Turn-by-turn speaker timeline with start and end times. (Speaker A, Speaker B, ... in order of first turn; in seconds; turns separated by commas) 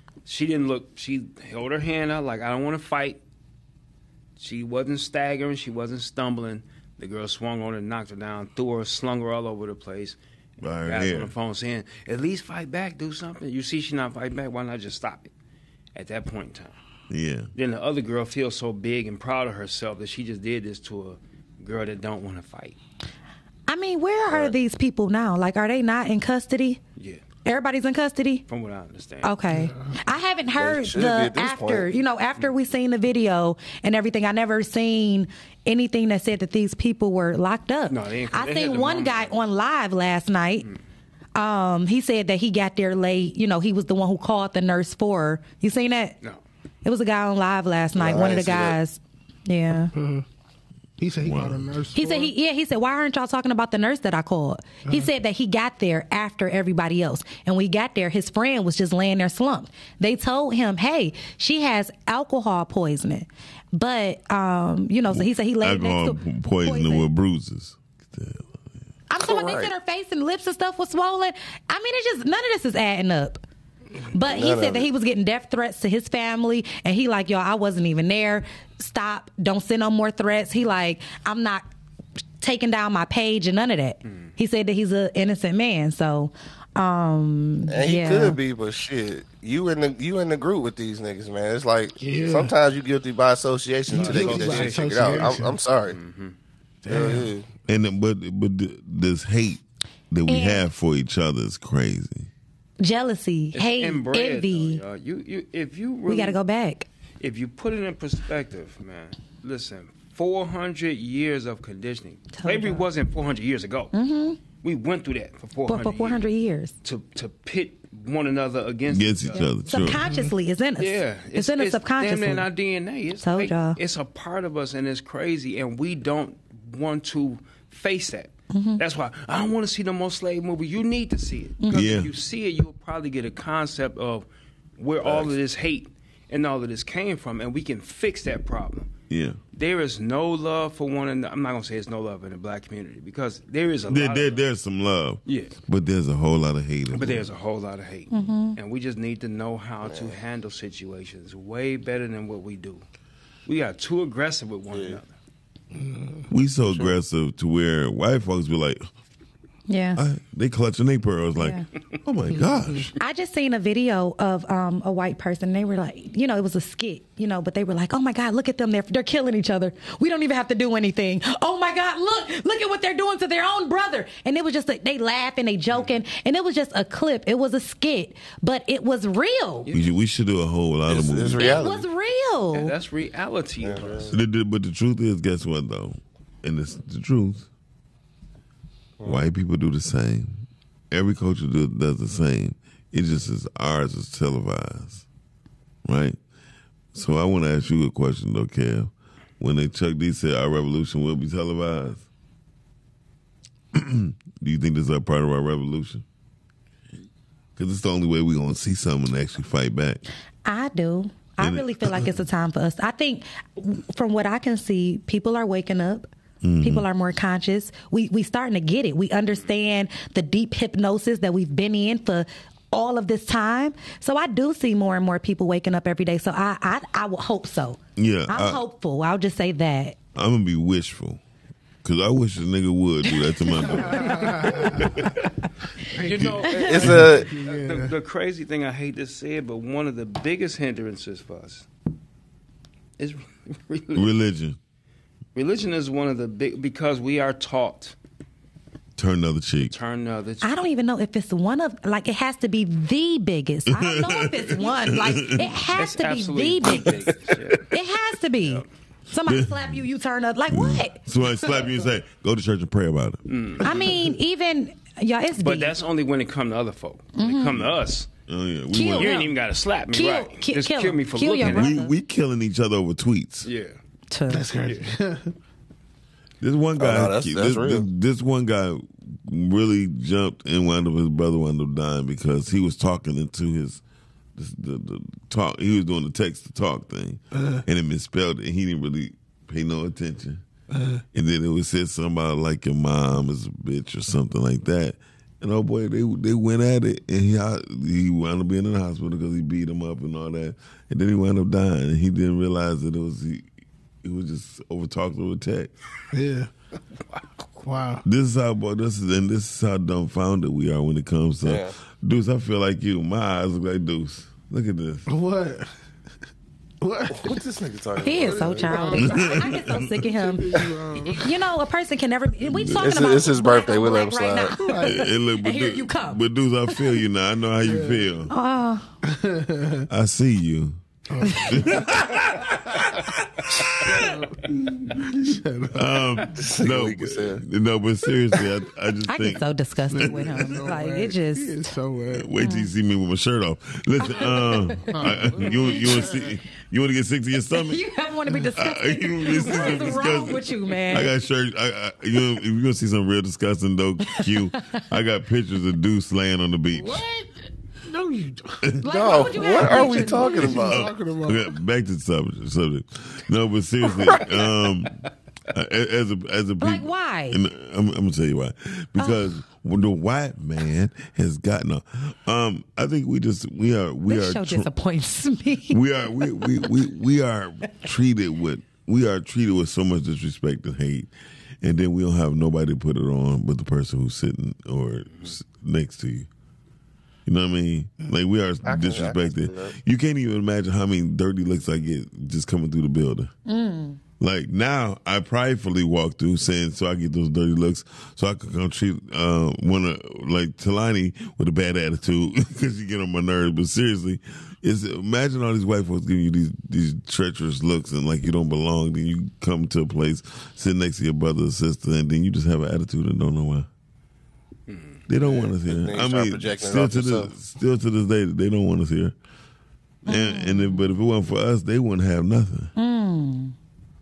Speaker A: 0.2-3.2, Speaker A: 4.4-10.2, Speaker B: 10.6-11.3, Speaker A: 10.8-15.3, Speaker A: 15.9-16.8, Speaker B: 17.1-17.5, Speaker A: 17.5-22.8, Speaker C: 23.7-26.8, Speaker A: 26.9-27.2, Speaker C: 27.4-28.4, Speaker A: 28.5-29.3, Speaker C: 29.2-40.7, Speaker D: 29.5-29.9, Speaker E: 30.6-31.9, Speaker A: 37.9-39.3, Speaker C: 41.3-46.1, Speaker C: 46.8-49.9, Speaker E: 47.9-48.8, Speaker D: 49.9-50.2, Speaker D: 51.0-52.3, Speaker B: 51.2-51.7, Speaker C: 51.9-67.1, Speaker B: 65.1-68.6, Speaker C: 69.1-73.4, Speaker E: 69.2-69.7, Speaker C: 74.1-81.6, Speaker E: 74.2-74.9, Speaker C: 82.4-88.4, Speaker E: 87.7-96.0, Speaker D: 92.0-92.5, Speaker D: 93.9-95.5, Speaker A: 93.9-95.3, Speaker A: 95.9-96.3, Speaker D: 96.8-97.3, Speaker E: 96.9-97.5, Speaker B: 97.7-102.3, Speaker C: 100.3-100.7, Speaker C: 102.8-104.8, Speaker A: 103.5-106.4, Speaker C: 106.1-106.9, Speaker A: 107.2-113.9, Speaker C: 112.3-112.8, Speaker C: 113.9-114.4, Speaker A: 114.6-116.3, Speaker C: 115.7-116.7, Speaker A: 116.8-119.5, Speaker B: 118.9-120.0, Speaker C: 119.3-122.5, Speaker D: 119.9-120.3, Speaker A: 120.8-134.3, Speaker C: 123.2-123.8, Speaker C: 128.5-128.8, Speaker C: 131.6-131.8, Speaker B: 131.7-132.1, Speaker A: 134.8-138.9, Speaker B: 135.0-135.3, Speaker B: 139.1-139.4, Speaker A: 139.5-144.4, Speaker B: 143.9-147.3, Speaker A: 145.2-145.5, Speaker A: 146.9-152.8, Speaker C: 148.1-148.6, Speaker E: 149.8-150.1, Speaker A: 153.4-155.1, Speaker E: 154.7-155.0, Speaker D: 155.7-156.3, Speaker B: 156.3-158.8, Speaker A: 156.7-157.0, Speaker C: 159.7-160.0, Speaker B: 159.9-162.9, Speaker C: 161.4-161.6, Speaker C: 163.0-179.7, Speaker A: 179.6-179.9, Speaker B: 179.7-181.6, Speaker E: 180.9-181.8, Speaker A: 181.4-181.6, Speaker C: 181.5-182.7, Speaker A: 182.5-184.2, Speaker E: 183.6-184.1, Speaker B: 184.1-187.5, Speaker B: 189.0-195.0, Speaker B: 195.8-196.2, Speaker B: 196.9-202.0, Speaker B: 203.7-206.0, Speaker B: 207.6-210.0, Speaker C: 210.4-216.1, Speaker B: 211.4-212.1, Speaker B: 216.4-216.8, Speaker C: 216.6-230.0, Speaker B: 228.0-228.6, Speaker B: 230.1-231.2, Speaker B: 231.8-235.1, Speaker D: 233.7-235.2, Speaker C: 234.2-234.6, Speaker D: 235.9-237.9, Speaker A: 236.0-241.7, Speaker B: 236.1-237.1, Speaker E: 236.6-237.3, Speaker A: 243.0-244.1, Speaker B: 243.9-244.6, Speaker A: 245.3-247.9, Speaker B: 249.0-249.8, Speaker A: 249.7-250.5, Speaker C: 250.4-256.9, Speaker B: 253.7-255.7, Speaker A: 255.7-257.7, Speaker B: 256.6-257.0, Speaker C: 257.7-261.6, Speaker B: 259.3-259.8, Speaker B: 260.5-263.8, Speaker A: 263.3-263.9, Speaker C: 263.6-265.7, Speaker A: 265.4-268.1, Speaker C: 267.1-267.6, Speaker B: 268.3-269.2, Speaker C: 268.7-269.4, Speaker A: 268.9-271.8, Speaker C: 269.9-271.9, Speaker B: 271.4-273.5, Speaker A: 273.4-273.8, Speaker C: 274.1-274.5, Speaker D: 274.3-275.3, Speaker B: 276.4-283.8, Speaker E: 276.8-277.8, Speaker B: 284.4-290.4, Speaker D: 287.3-287.6, Speaker D: 290.7-291.0, Speaker B: 291.1-303.5, Speaker B: 304.0-305.7, Speaker D: 306.1-306.5, Speaker D: 307.6-308.0, Speaker B: 308.0-315.1, Speaker E: 311.4-311.7, Speaker D: 315.1-315.7, Speaker D: 316.8-317.4, Speaker E: 317.1-318.9, Speaker C: 318.0-320.5, Speaker D: 318.1-321.3, Speaker B: 319.0-319.9, Speaker C: 321.1-326.9, Speaker B: 322.4-323.1, Speaker E: 322.7-324.6, Speaker D: 324.6-324.9, Speaker B: 324.8-328.3, Speaker D: 327.6-328.0, Speaker C: 328.3-328.9, Speaker D: 329.0-329.9, Speaker B: 329.9-330.8, Speaker D: 331.1-332.0, Speaker C: 331.2-331.6, Speaker B: 331.4-334.0, Speaker D: 333.8-336.2, Speaker B: 335.7-339.4, Speaker E: 336.3-337.4, Speaker C: 339.1-341.7, Speaker D: 339.9-342.3, Speaker B: 340.0-340.5, Speaker B: 342.1-347.8, Speaker C: 342.4-342.7, Speaker C: 344.0-344.9, Speaker D: 344.9-346.3, Speaker C: 347.5-351.1, Speaker B: 348.5-357.0, Speaker C: 354.1-354.8, Speaker D: 356.7-358.8, Speaker C: 358.8-360.5, Speaker E: 358.9-360.9, Speaker D: 359.4-361.5, Speaker B: 360.3-374.7, Speaker C: 366.6-367.4, Speaker C: 369.0-369.3, Speaker C: 374.1-376.7, Speaker B: 375.7-381.1, Speaker B: 381.6-386.3, Speaker A: 385.1-385.3, Speaker B: 387.2-393.3, Speaker E: 388.6-389.7, Speaker C: 393.4-394.0, Speaker B: 394.2-413.7, Speaker A: 414.7-415.3, Speaker B: 415.1-419.1, Speaker E: 415.2-417.3, Speaker B: 420.0-422.7, Speaker C: 420.1-420.8, Speaker C: 422.8-423.5